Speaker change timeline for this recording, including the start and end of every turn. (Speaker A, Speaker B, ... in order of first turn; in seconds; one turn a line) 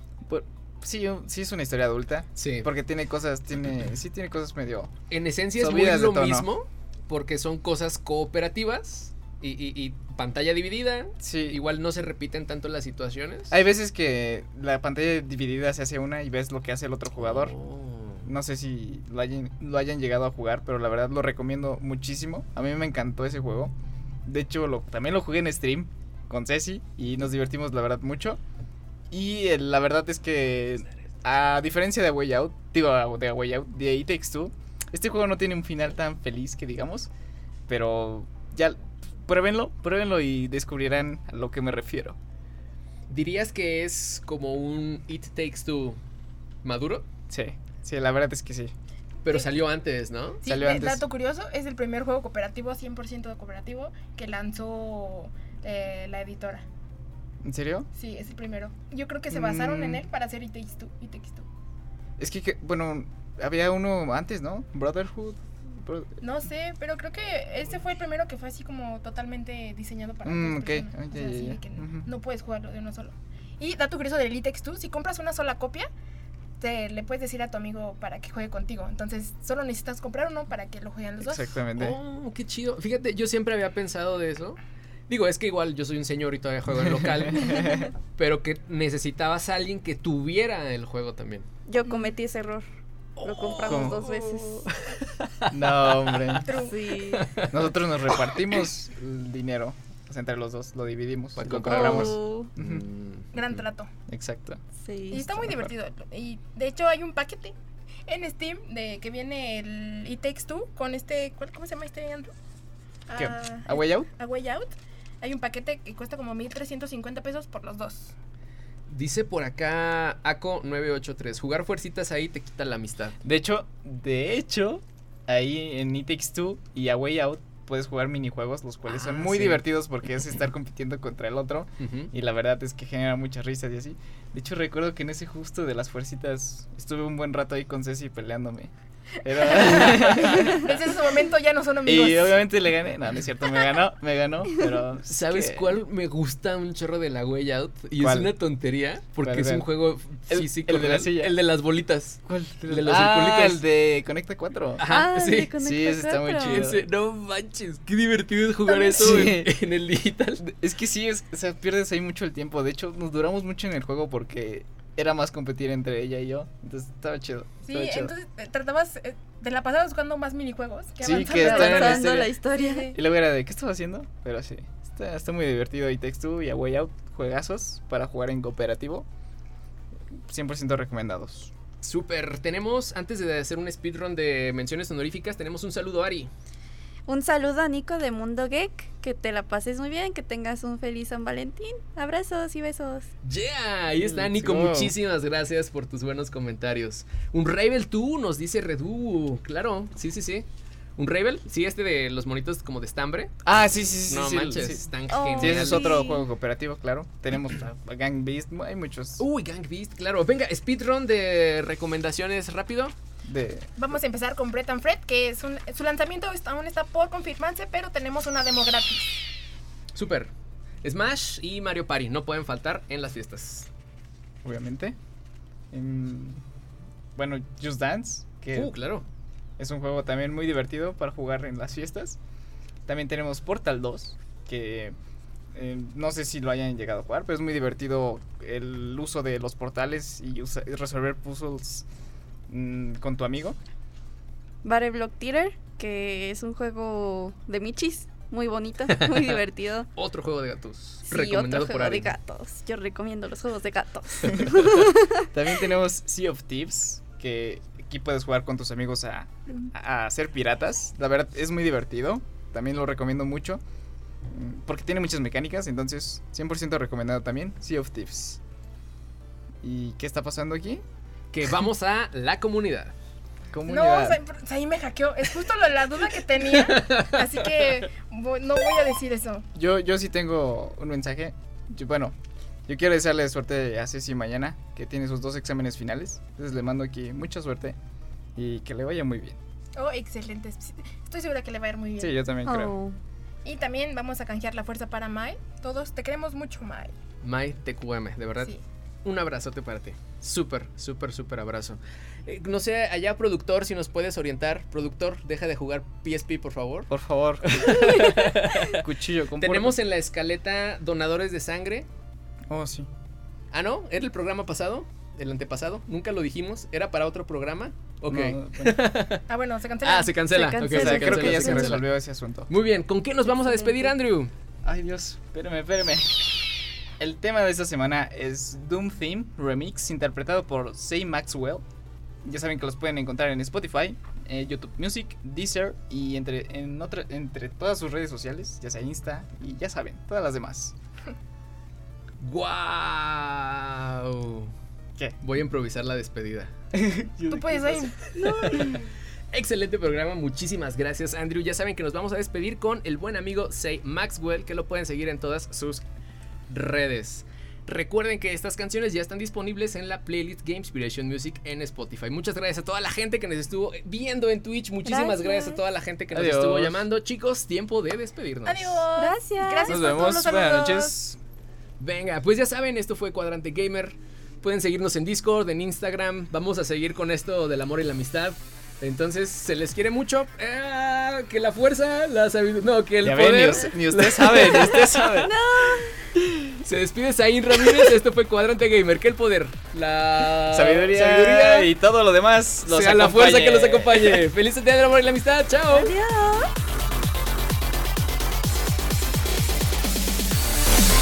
Speaker A: 0.2-4.9
Speaker B: 2.4-2.7
Speaker B: 5.1-13.6
Speaker A: 5.6-6.5
Speaker A: 11.2-11.6
Speaker A: 13.5-17.5
Speaker B: 17.2-18.3
Speaker A: 18.2-23.7
Speaker A: 24.3-28.4
Speaker A: 29.1-37.1
Speaker A: 37.7-42.2
Speaker B: 43.1-46.0
Speaker B: 46.6-47.0
Speaker A: 47.3-48.7
Speaker B: 49.2-50.4
Speaker C: 50.4-56.7
Speaker A: 50.4-51.0
Speaker A: 57.4-57.9
Speaker C: 57.9-61.5
Speaker A: 59.3-60.0
Speaker A: 62.2-66.2
Speaker C: 66.2-75.9
Speaker A: 70.2-72.1
Speaker C: 76.6-81.5
Speaker A: 81.2-82.0
Speaker B: 81.8-91.5
Speaker A: 86.8-87.9
Speaker D: 91.7-92.7
Speaker C: 91.8-92.1
Speaker B: 93.2-96.4
Speaker D: 93.2-94.7
Speaker A: 93.7-94.0
Speaker A: 95.5-96.5
Speaker C: 96.5-96.8
Speaker D: 96.5-97.4
Speaker B: 97.1-97.5
Speaker A: 97.5-102.8
Speaker B: 101.4-103.7
Speaker D: 101.7-102.5
Speaker C: 103.3-103.9
Speaker A: 104.1-104.6
Speaker D: 104.8-105.3
Speaker C: 105.1-107.5
Speaker A: 105.1-105.7
Speaker C: 108.1-112.3
Speaker C: 113.1-118.1
Speaker A: 113.2-114.1
Speaker B: 118.9-123.2
Speaker A: 123.2-138.7
Speaker B: 128.9-129.6
Speaker B: 131.8-132.1
Speaker A: 139.2-140.8
Speaker C: 139.3-142.4
Speaker A: 141.8-145.8
Speaker B: 145.1-153.6
Speaker A: 148.0-148.3
Speaker A: 149.2-149.7
Speaker A: 150.3-151.3
Speaker A: 152.3-154.9
Speaker B: 154.8-155.5
Speaker D: 154.9-156.7
Speaker A: 155.5-156.8
Speaker B: 156.4-160.4
Speaker A: 158.8-159.5
Speaker A: 160.4-168.1
Speaker C: 167.7-173.0
Speaker A: 171.0-172.4
Speaker D: 171.1-172.9
Speaker A: 172.9-179.1
Speaker A: 180.3-181.5
Speaker B: 181.8-186.3
Speaker D: 187.1-193.1
Speaker B: 193.2-203.4
Speaker A: 194.0-194.9
Speaker A: 203.4-209.2
Speaker B: 204.1-206.0
Speaker D: 205.1-206.2
Speaker B: 209.2-212.9
Speaker A: 213.2-213.7
Speaker C: 213.8-219.2
Speaker B: 219.9-220.3
Speaker B: 220.8-223.7
Speaker A: 224.4-225.0
Speaker A: 225.7-226.4
Speaker A: 227.2-228.7
Speaker B: 228.5-229.1
Speaker A: 229.6-232.2
Speaker A: 232.9-235.0
Speaker A: 235.5-241.9
Speaker A: 242.5-243.6
Speaker D: 244.7-249.9
Speaker B: 248.9-249.4
Speaker B: 250.0-252.1
Speaker D: 251.1-255.3
Speaker A: 255.3-263.6
Speaker A: 264.3-268.4
Speaker A: 269.6-270.8
Speaker B: 271.3-272.9
Speaker A: 273.5-274.2
Speaker C: 273.7-279.5
Speaker B: 276.5-277.5
Speaker A: 279.6-282.2
Speaker A: 282.7-287.8
Speaker A: 288.4-289.4
Speaker C: 289.8-292.2
Speaker A: 292.0-292.8
Speaker D: 292.4-293.0
Speaker C: 293.4-296.9
Speaker B: 297.2-298.5
Speaker B: 299.1-306.9
Speaker A: 306.9-309.8
Speaker B: 307.4-308.8
Speaker B: 309.4-311.9
Speaker A: 312.5-312.9
Speaker B: 313.5-319.2
Speaker A: 318.1-318.8
Speaker C: 319.3-320.3
Speaker B: 319.8-321.9
Speaker D: 320.3-321.8
Speaker A: 320.6-322.5
Speaker B: 322.5-324.3
Speaker D: 323.3-323.9
Speaker A: 324.6-331.6
Speaker A: 332.2-340.8
Speaker B: 342.2-344.5
Speaker B: 345.2-346.5
Speaker A: 346.7-347.9
Speaker C: 347.3-348.1
Speaker B: 348.2-348.8
Speaker D: 348.4-348.8
Speaker B: 349.3-355.8
Speaker B: 356.5-368.9
Speaker D: 364.9-365.6
Speaker A: 366.1-366.8
Speaker C: 368.5-370.9
Speaker D: 369.0-369.8
Speaker A: 369.7-371.2
Speaker B: 371.8-385.3
Speaker A: 383.0-385.3
Speaker D: 385.3-385.9
Speaker B: 386.5-391.7
Speaker A: 390.5-394.2
Speaker B: 392.6-395.9
Speaker D: 395.7-396.5